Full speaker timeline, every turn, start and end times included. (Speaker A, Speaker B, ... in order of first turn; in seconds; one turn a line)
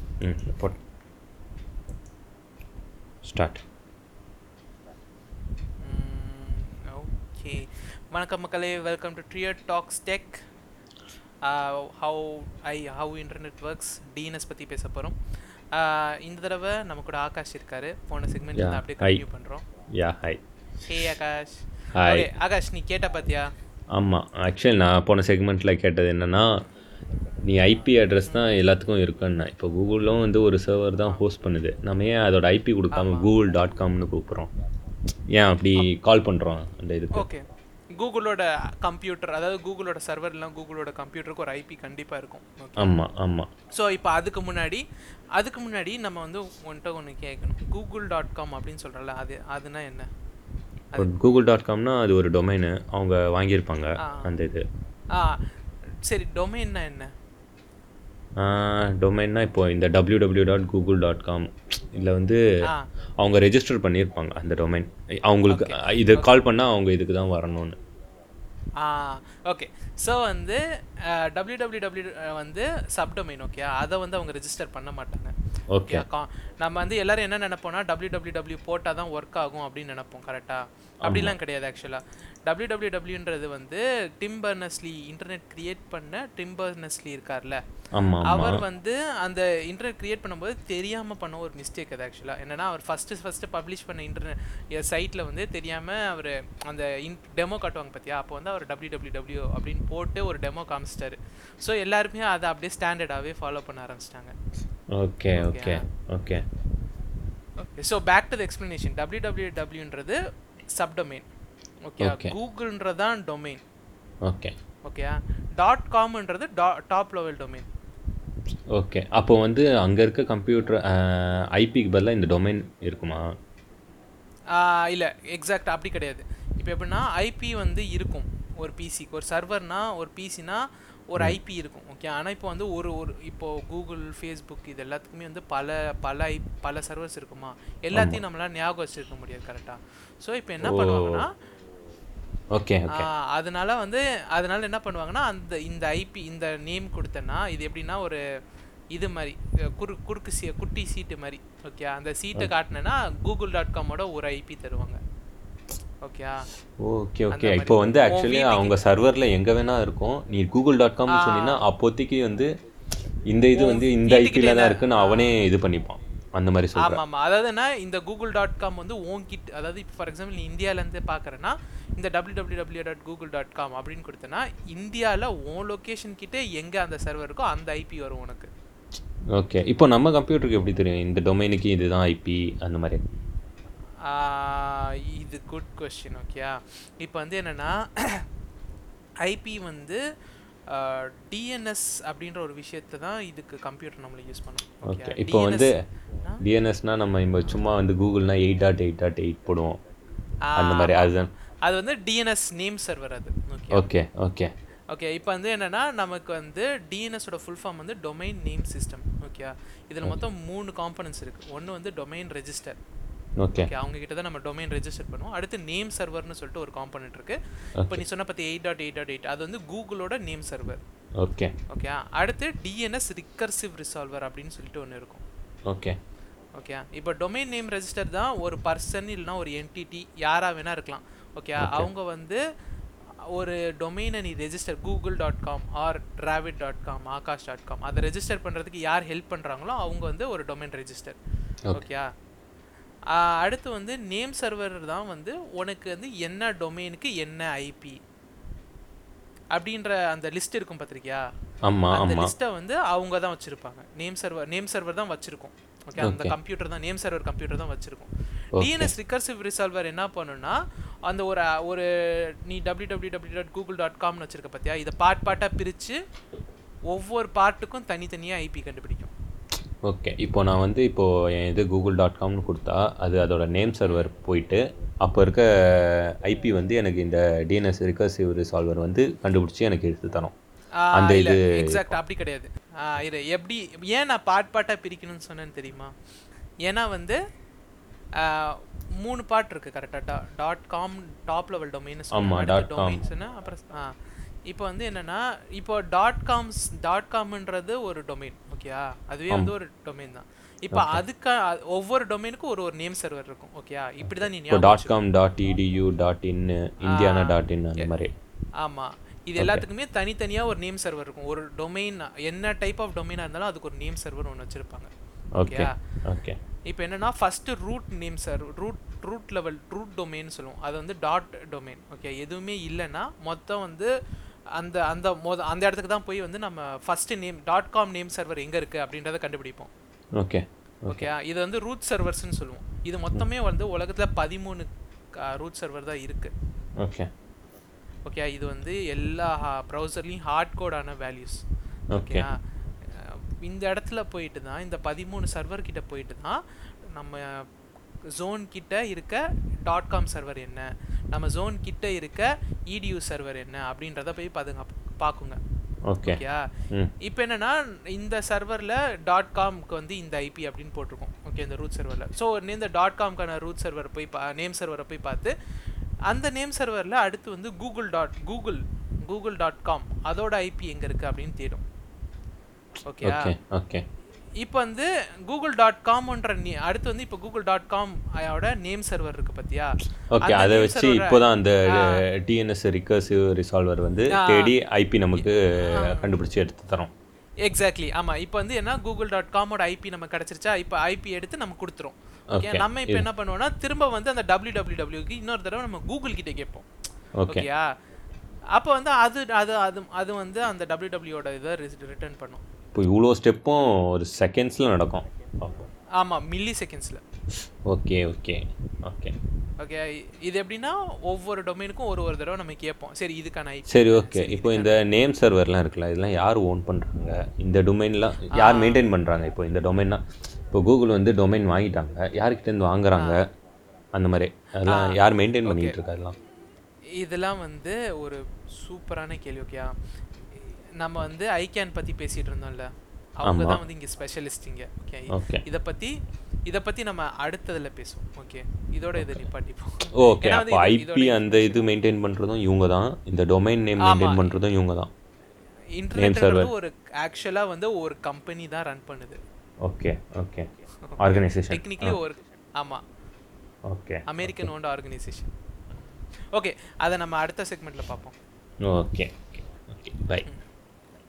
Speaker A: 0.2-0.8
Speaker A: 3.2-3.6
Speaker B: 5.8-10.4
Speaker B: 11.4-15.2
Speaker B: 15.7-19.6
Speaker A: 18.6-19.2
Speaker A: 20.0-20.4
Speaker B: 20.9-23.5
Speaker A: 22.0-22.3
Speaker A: 23.9-26.4
Speaker A: 27.4-34.5
Speaker B: 32.9-33.3
Speaker A: 35.3-37.3
Speaker B: 37.1-37.5
Speaker B: 38.0-42.9
Speaker A: 42.8-43.5
Speaker B: 43.7-44.8
Speaker B: 45.4-50.1
Speaker A: 51.0-54.6
Speaker B: 54.0-54.3
Speaker B: 55.1-55.4
Speaker B: 56.1-57.1
Speaker A: 58.4-62.4
Speaker A: 63.2-67.8
Speaker B: 65.5-66.3
Speaker B: 68.8-75.3
Speaker A: 75.7-76.0
Speaker B: 75.9-87.6
Speaker A: 81.0-81.4
Speaker A: 87.9-88.6
Speaker B: 88.2-104.3
Speaker A: 105.0-106.4
Speaker B: 105.4-105.8
Speaker B: 107.6-110.2
Speaker B: 110.7-111.3
Speaker B: 111.8-113.6
Speaker A: 112.0-112.3
Speaker A: 114.3-114.5
Speaker B: 114.9-117.7
Speaker A: 118.7-123.2
Speaker B: 124.5-141.3
Speaker A: 137.9-138.2
Speaker A: 140.6-141.2
Speaker A: 142.6-143.1
Speaker B: 142.9-148.2
Speaker B: 148.9-155.0
Speaker B: 156.0-156.5
Speaker A: 156.8-162.5
Speaker B: 157.3-158.8
Speaker B: 161.1-161.6
Speaker A: 163.3-167.0
Speaker B: 163.6-165.4
Speaker B: 166.8-178.5
Speaker A: 179.3-183.0
Speaker B: 184.1-188.2
Speaker B: 189.2-190.0
Speaker B: 190.7-195.7
Speaker A: 194.9-195.7
Speaker A: 196.4-199.8
Speaker B: 200.5-201.1
Speaker A: 200.6-201.3
Speaker B: 201.6-203.8
Speaker A: 203.7-204.5
Speaker B: 204.9-212.8
Speaker A: 213.4-213.7
Speaker B: 213.6-220.8
Speaker A: 221.2-221.5
Speaker B: 221.7-225.2
Speaker A: 225.7-226.0
Speaker B: 226.6-232.4
Speaker A: 231.6-231.9
Speaker B: 233.3-241.2
Speaker B: 241.7-242.1
Speaker B: 243.1-248.0
Speaker B: 249.6-251.2
Speaker A: 251.7-252.3
Speaker B: 251.9-266.0
Speaker A: 256.0-256.4
Speaker A: 258.6-258.9
Speaker B: 266.9-269.1
Speaker A: 269.9-280.3
Speaker B: 273.9-274.1
Speaker B: 280.8-285.9
Speaker A: 280.9-281.9
Speaker B: 286.6-287.2
Speaker B: 288.2-293.9
Speaker A: 292.1-293.0
Speaker B: 294.5-305.0
Speaker A: 300.7-301.0
Speaker A: 304.0-308.1
Speaker B: 306.9-307.9
Speaker B: 308.6-314.9
Speaker A: 315.4-316.4
Speaker B: 315.4-315.7
Speaker B: 316.7-323.9
Speaker B: 324.6-329.7
Speaker A: 330.2-331.1
Speaker B: 330.9-334.7
Speaker B: 335.2-336.3
Speaker A: 336.8-337.1
Speaker B: 338.1-341.4
Speaker A: 341.9-342.3
Speaker B: 341.9-346.4
Speaker B: 346.9-347.4
Speaker B: 348.2-355.4
Speaker A: 355.9-356.9
Speaker B: 356.0-356.5
Speaker B: 357.0-365.3
Speaker B: 366.1-371.6
Speaker B: 372.9-373.3
Speaker A: 373.0-373.9
Speaker B: 374.4-382.0
Speaker A: 380.1-386.9
Speaker B: 384.1-384.5
Speaker B: 385.2-386.1
Speaker B: 387.4-396.7
Speaker A: 392.3-393.1
Speaker A: 397.2-397.5
Speaker B: 397.3-397.7
Speaker B: 398.6-402.4
Speaker A: 402.7-405.7
Speaker B: 406.0-407.0
Speaker A: 407.7-409.1
Speaker B: 409.6-414.8
Speaker A: 413.7-420.0
Speaker B: 418.3-418.8
Speaker A: 420.5-423.2
Speaker A: 423.9-426.1
Speaker B: 424.7-424.9
Speaker B: 425.4-425.8
Speaker B: 427.0-429.7
Speaker B: 430.8-435.9
Speaker A: 433.2-433.6
Speaker A: 435.1-435.4
Speaker B: 436.5-441.4
Speaker A: 439.0-439.3
Speaker A: 440.0-444.9
Speaker B: 443.8-444.3
Speaker B: 445.8-449.2
Speaker A: 446.0-446.5
Speaker A: 449.6-450.5
Speaker B: 450.9-452.8
Speaker A: 451.0-452.0
Speaker A: 453.7-454.5
Speaker B: 454.1-455.8
Speaker B: 456.3-458.1
Speaker A: 458.7-460.3